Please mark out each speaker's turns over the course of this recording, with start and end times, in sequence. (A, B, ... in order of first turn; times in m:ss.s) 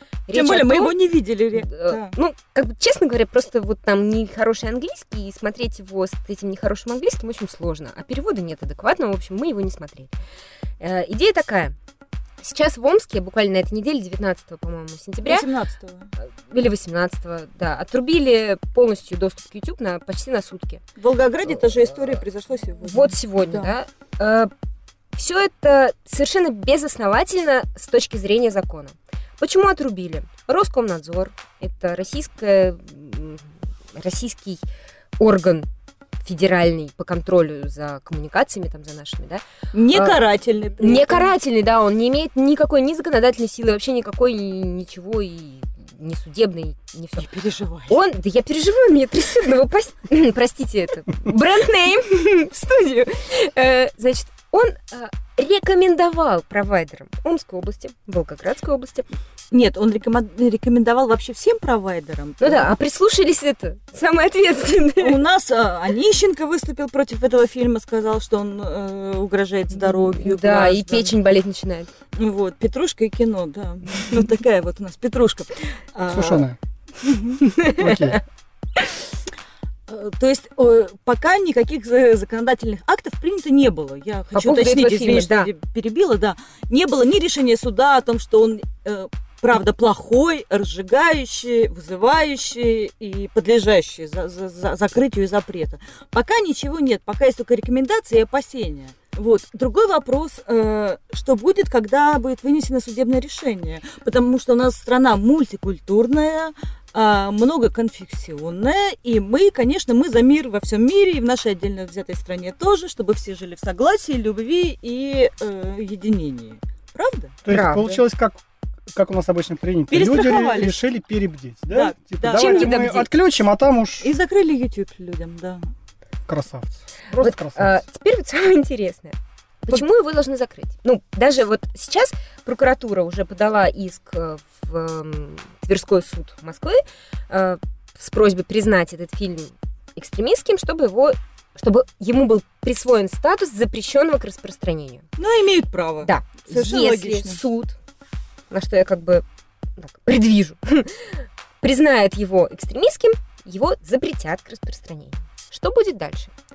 0:00.3-0:01.0 A
0:00.3-0:02.1 B
0:01.6-0:10.1 A
0:10.8-0:11.7 A
0:12.4-0:15.5 A
0:15.2-0:16.1 B
0:16.2-0:20.8 A
0:21.0-0:23.7 B
0:22.8-0:24.5 A
0:25.1-0:34.6 A
0:35.2-0:35.7 A
0:36.2-0:40.2 A
0:39.7-0:41.3 B
0:40.8-0:47.2 A
0:47.2-0:48.0 B
0:47.9-0:59.1 A
0:59.5-1:02.7 B
1:02.4-1:05.2 A
1:05.0-1:11.1 B
1:09.8-1:11.9 A
1:12.1-1:16.4 B
1:16.1-1:16.6 C
1:17.4-1:18.2 A
1:17.8-1:18.2 C
1:19.9-1:57.4 B
1:24.3-1:25.5 A
1:57.4-2:04.1 C
1:57.5-1:58.0 A
1:59.9-2:00.8 B
2:01.7-2:02.8 B
2:02.3-2:03.1 A
2:04.0-2:05.6 B
2:06.3-2:07.8 C
2:07.2-2:25.0 A
2:25.2-2:27.4 B
2:26.0-2:27.7 A
2:28.5-2:29.2 A
2:29.8-2:36.3 A